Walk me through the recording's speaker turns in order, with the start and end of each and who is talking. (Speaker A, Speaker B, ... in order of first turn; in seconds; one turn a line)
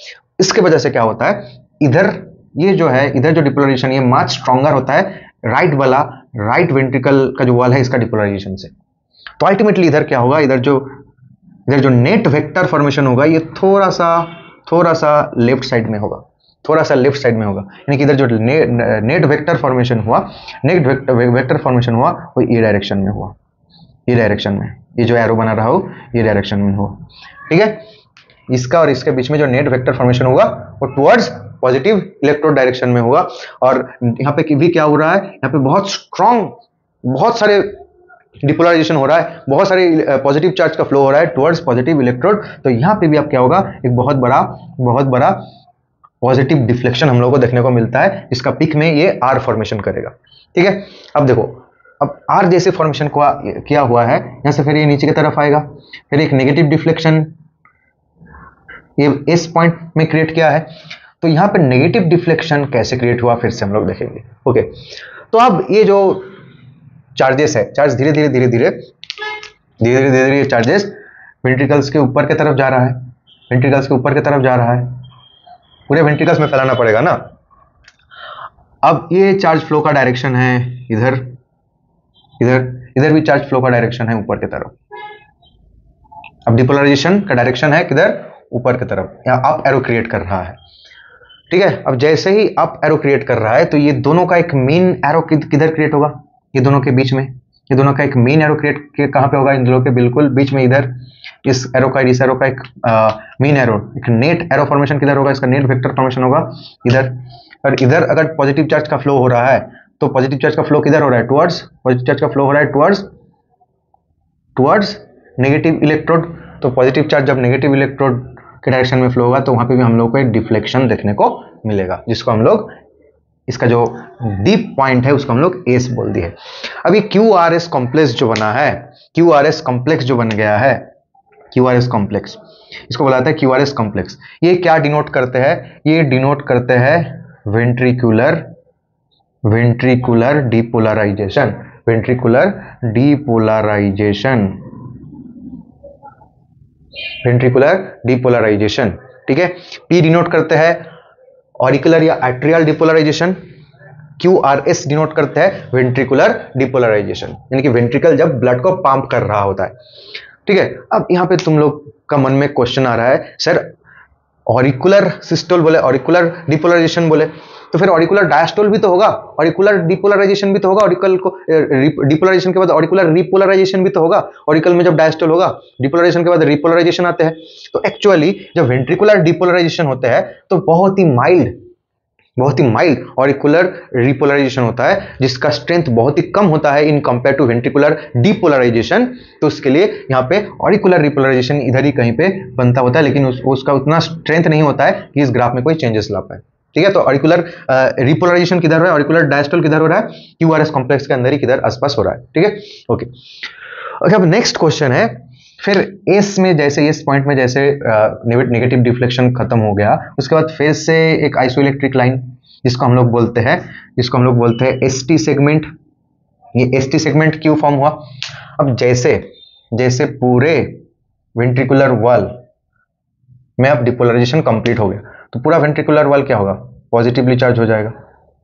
Speaker A: 0.4-8.7
Speaker A: 9.4-10.9
Speaker A: 11.7-23.4
Speaker A: 24.1-27.8
Speaker A: 28.5-37.8
Speaker A: 38.4-45.5
Speaker A: 46.2-57.3
Speaker A: 59.0-64.7
Speaker A: 65.3-66.3
Speaker A: 67.1-68.9
Speaker A: 69.8-75.0
Speaker A: 75.9-77.2
Speaker A: 78.8-81.3
Speaker A: 82.4-84.8
Speaker A: 86.5-90.6
Speaker A: 91.5-100.9
Speaker A: 101.4-113.1
Speaker A: 114.6-122.7
Speaker A: 123.5-130.9
Speaker A: 131.5-138.5
Speaker A: 139.4-144.6
Speaker A: 147.2-150.9
Speaker A: 151.6-153.4
Speaker A: 154.2-159.8
Speaker A: 160.4-163.7
Speaker A: 164.5-181.5
Speaker A: 182.4-203.1
Speaker A: 204.0-215.7
Speaker A: 216.5-220.8
Speaker A: 221.4-222.4
Speaker A: 223.6-227.9